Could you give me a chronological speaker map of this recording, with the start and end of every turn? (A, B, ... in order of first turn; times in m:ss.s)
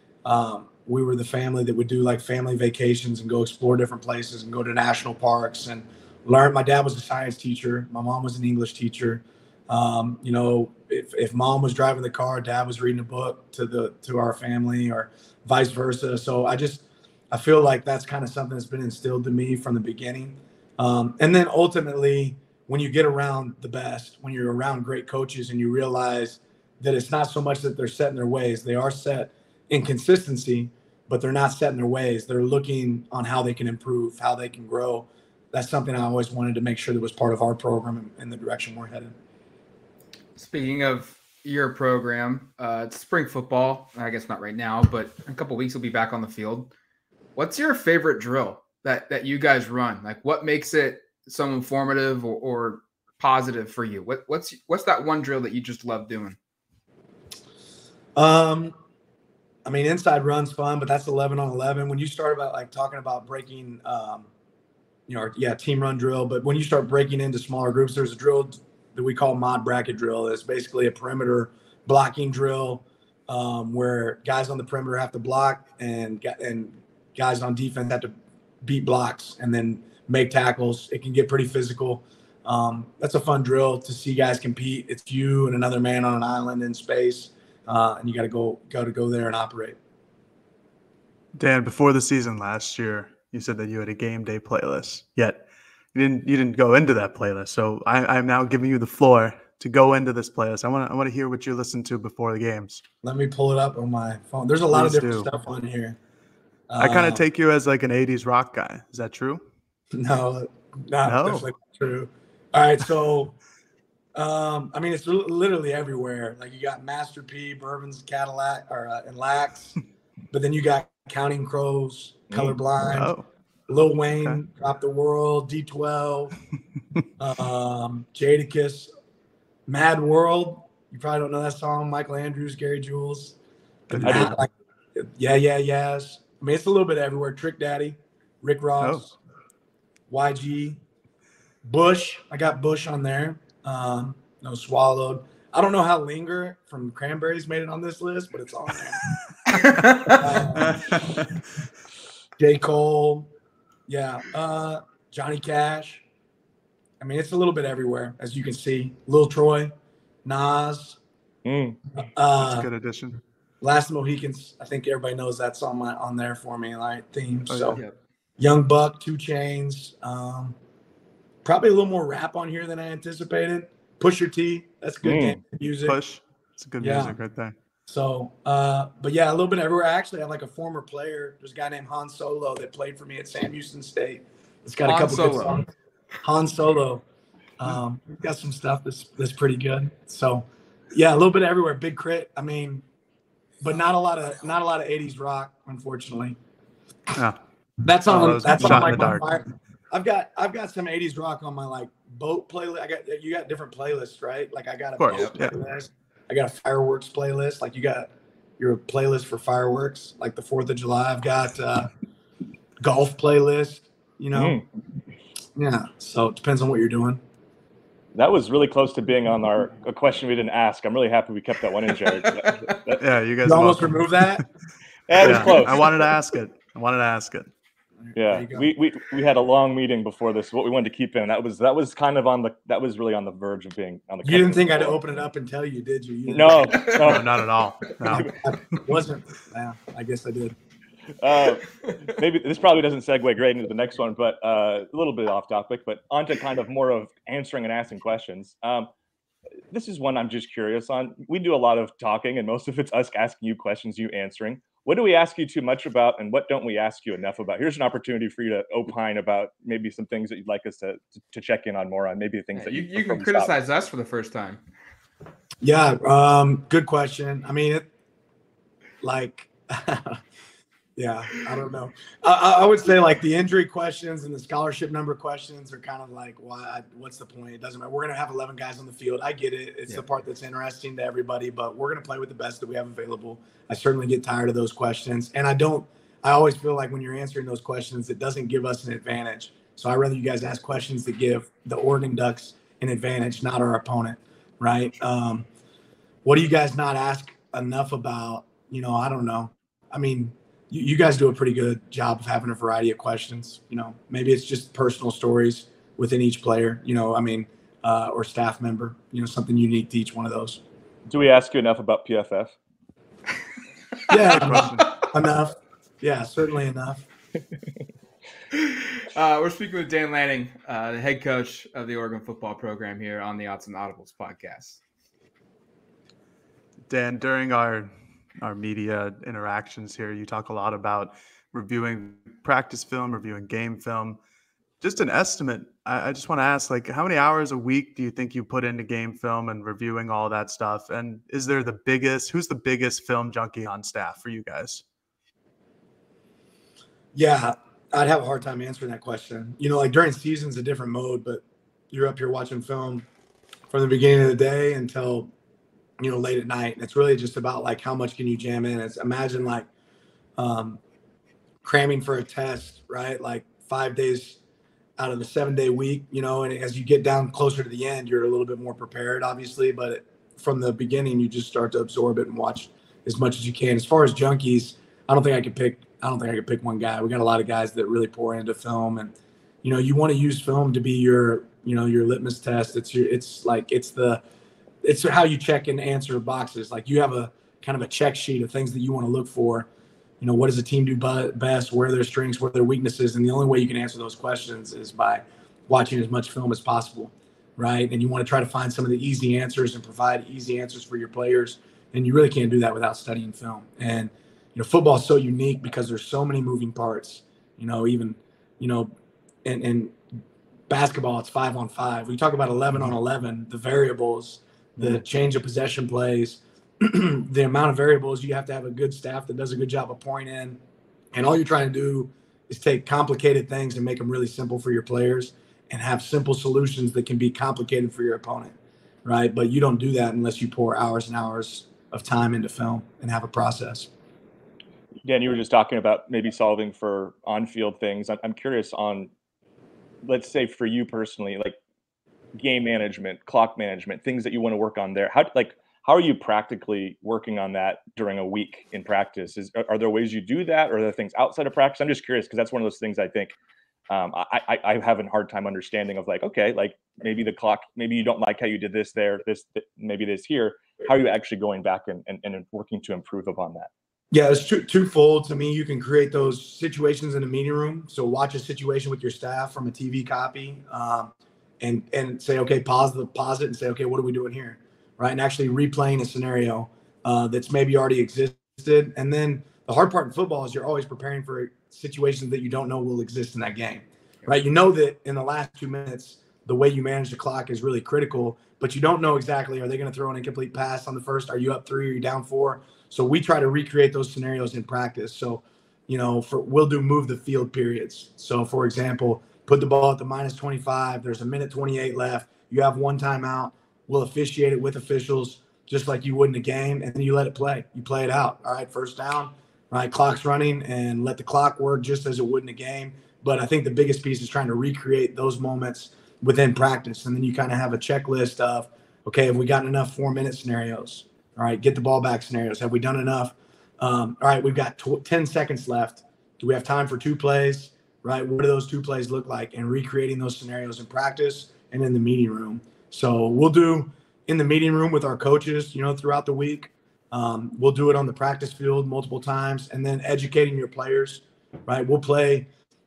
0:00.2-0:39.2 A
0:40.4-0:46.7 B
0:47.4-0:56.4 B
0:58.2-0:58.7 A
0:59.6-1:04.3 A
1:05.1-1:29.8 A
1:31.4-1:42.8 C
1:43.0-1:46.0 A
1:44.7-1:45.3 C
1:46.7-1:47.2 A
1:46.8-1:49.4 C
1:49.9-1:53.4 A
1:51.0-1:51.5 C
1:54.2-1:59.8 A
2:00.3-2:03.1 A
2:02.8-2:03.3 C
2:03.7-2:06.4 A
2:07.2-2:08.9 A
2:09.7-2:13.4 A
2:13.9-2:14.4 C
2:13.9-2:19.2 A
2:14.0-2:14.4 D
2:20.1-2:20.8 A
2:21.6-2:29.0 A
2:29.5-2:30.2 B
2:30.1-2:31.0 A
2:30.5-2:31.3 C
2:32.4-2:33.3 A
2:33.9-2:36.0 A
2:37.0-2:39.7 A
2:40.2-2:41.0 A
2:41.4-2:41.8 D
2:42.0-2:42.7 A
2:42.4-2:43.2 C
2:43.6-2:47.8 A
2:47.5-2:47.8 C
2:48.4-2:50.6 A
2:51.4-2:56.0 A
2:55.0-2:55.4 D
2:55.8-2:57.6 C
2:56.8-2:57.2 A
2:57.9-3:05.7 A
3:04.9-3:05.6 B
3:06.2-3:07.0 A
3:07.6-3:12.8 A
3:13.6-3:16.4 A
3:17.1-3:17.4 C
3:17.8-3:31.9 A
3:18.1-3:19.3 C
3:25.0-3:25.6 C
3:32.8-3:34.6 A
3:34.3-3:34.6 D
3:35.6-3:37.2 A
3:38.2-3:43.0 D
3:43.0-3:44.4 C
3:43.4-3:44.4 A
3:45.1-3:46.1 D
3:45.2-3:47.5 C
3:48.1-3:48.7 A
3:48.2-3:55.0 D
3:54.2-3:56.9 A
3:56.3-3:58.4 D
3:57.0-3:58.4 C
3:58.2-4:00.6 A
4:01.2-4:08.9 D
4:09.7-4:23.5 D
4:22.6-4:24.6 B
4:25.6-4:27.8 A
4:29.0-4:30.2 A
4:31.0-4:55.5 A
4:56.2-5:10.6 A
5:11.1-5:12.5 D
5:14.1-5:17.0 A
5:14.2-5:15.0 C
5:18.5-5:24.8 B
5:26.9-5:34.2 C
5:34.8-5:44.8 C
5:47.1-5:53.1 A
5:53.7-5:55.3 A
5:56.0-5:59.7 A
6:00.4-6:00.8 A
6:01.6-6:04.4 A
6:05.0-6:24.2 A
6:24.8-6:29.7 A
6:30.2-6:48.9 A
6:49.4-6:50.0 A
6:50.7-7:00.6 A
7:01.1-7:13.9 A
7:15.0-7:19.1 D
7:20.0-7:21.6 D
7:22.4-7:33.4 D
7:33.9-7:43.7 D
7:44.1-9:02.5 A